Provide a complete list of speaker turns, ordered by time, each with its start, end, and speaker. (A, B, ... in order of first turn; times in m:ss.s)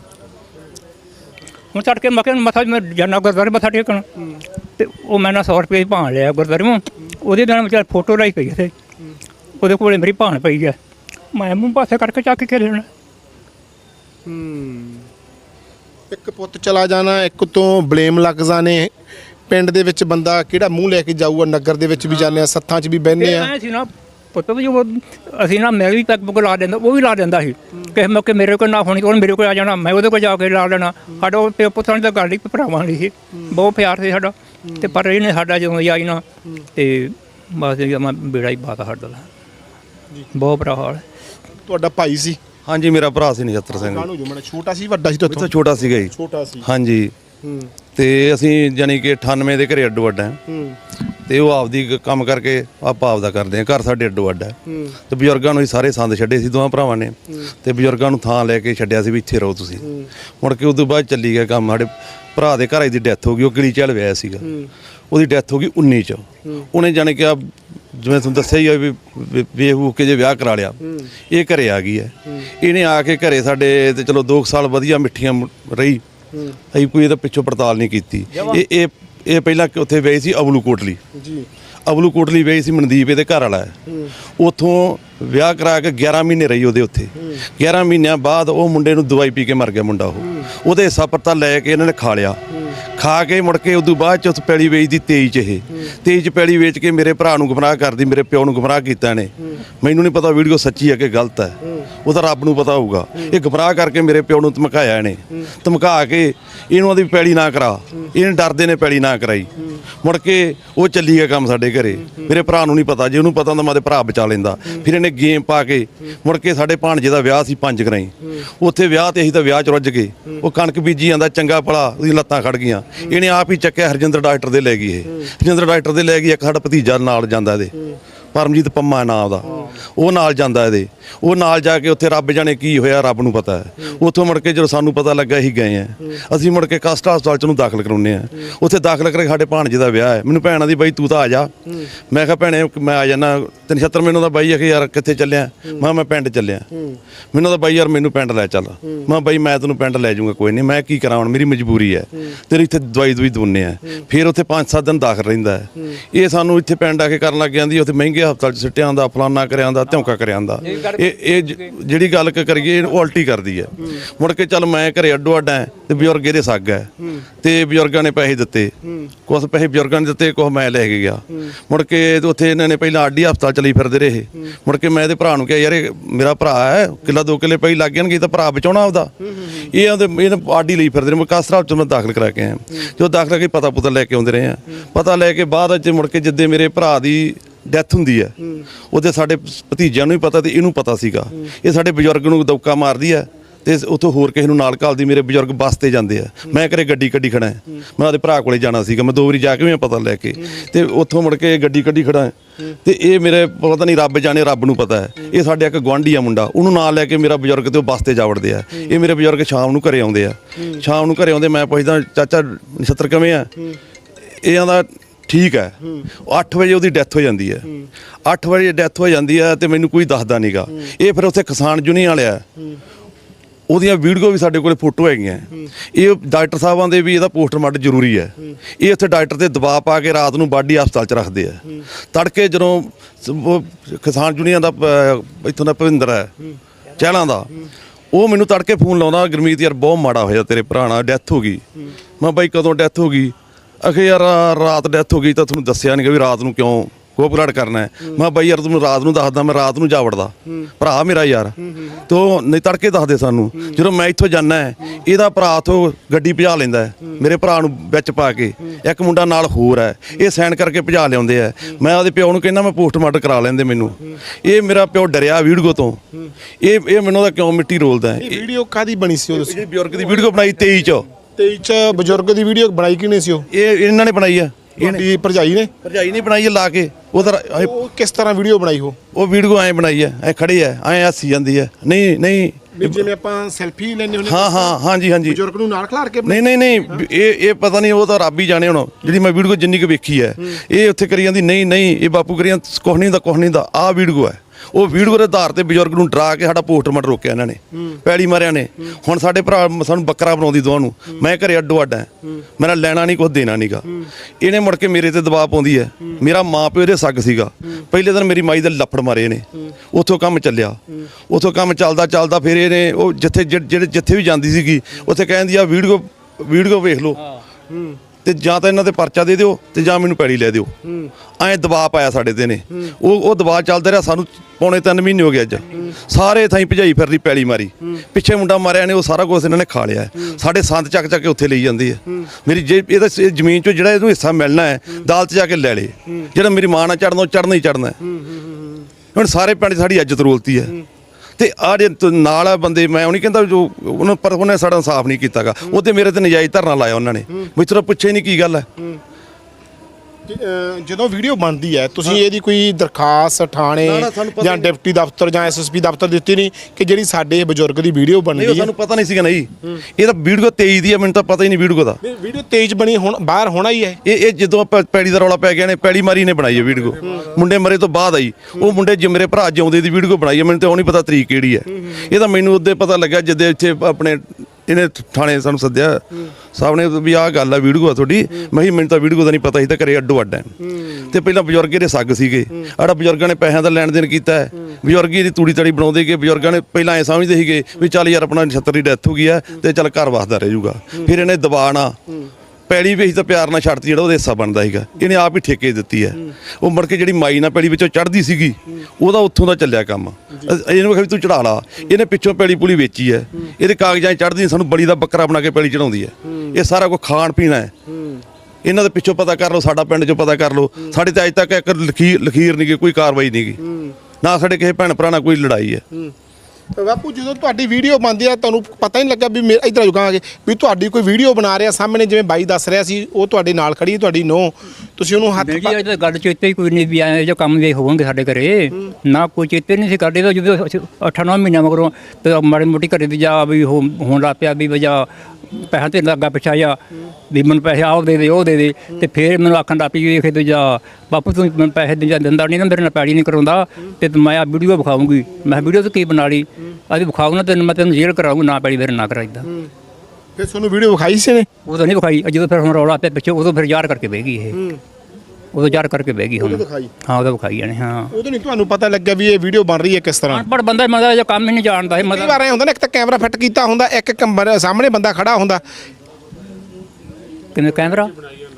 0:01.7-0:04.1 A
0:04.8-0:08.7 A
0:09.6-0:10.8 A
0:11.3-0:12.9 A
0:14.3-0:15.1 B
0:16.1-0:18.9 B
0:19.5-0:23.5 B
0:23.2-0:36.2 A
0:36.8-0:39.3 A
0:40.3-0:41.0 A
0:41.7-0:42.4 B
0:42.7-0:44.1 C
0:43.7-0:45.5 B
0:45.3-0:46.1 C
0:46.1-0:46.7 B
0:46.6-0:47.1 C
0:47.4-0:47.7 B
0:48.0-0:50.4 C
0:50.5-0:50.8 B
0:51.0-0:54.6 C
0:55.1-0:59.9 C
1:00.4-1:04.5 C
1:05.1-1:16.0 C
1:16.7-1:21.0 C
1:21.1-1:21.5 B
1:21.9-1:23.8 C
1:24.4-1:32.4 C
1:33.0-2:07.8 C
2:08.3-2:21.5 C
2:22.1-2:26.7 C
2:27.3-2:48.7 C
2:40.6-2:41.7 A
2:49.3-3:08.4 C
3:08.9-3:33.5 C
3:34.4-3:37.7 C
3:38.3-3:42.4 C
3:43.7-3:56.3 C
3:57.0-3:57.5 C
3:58.1-4:01.6 C
4:02.2-4:26.0 C
4:26.6-4:28.4 C
4:28.2-4:29.6 B
4:29.4-4:31.1 C
4:31.4-4:33.5 B
4:33.5-4:35.0 C
4:34.8-4:35.7 B
4:35.8-4:37.8 C
4:37.5-4:39.0 B
4:39.1-4:43.1 C
4:42.7-4:46.4 B
4:44.2-4:45.4 C
4:46.3-5:03.9 C
5:04.4-5:17.2 C
5:18.2-5:20.7 C
5:21.4-5:38.0 C
5:39.1-5:40.8 C
5:41.4-5:48.7 C
5:50.3-5:58.7 B
5:53.8-5:54.7 C
5:58.4-6:02.0 C
6:02.0-6:04.0 B
6:04.0-6:32.0 C
6:32.7-6:47.7 C
6:47.9-6:48.2 B
6:48.6-6:53.6 C
6:54.2-6:55.8 C
6:56.8-7:05.8 B
7:05.4-7:16.8 A
7:17.3-7:29.5 A
7:30.4-7:31.5 B
7:31.7-7:34.6 A
7:35.5-7:38.2 A
7:36.4-7:36.9 B
7:38.1-7:40.5 B
7:40.3-7:42.4 A
7:42.0-7:45.6 B
7:47.6-7:48.1 A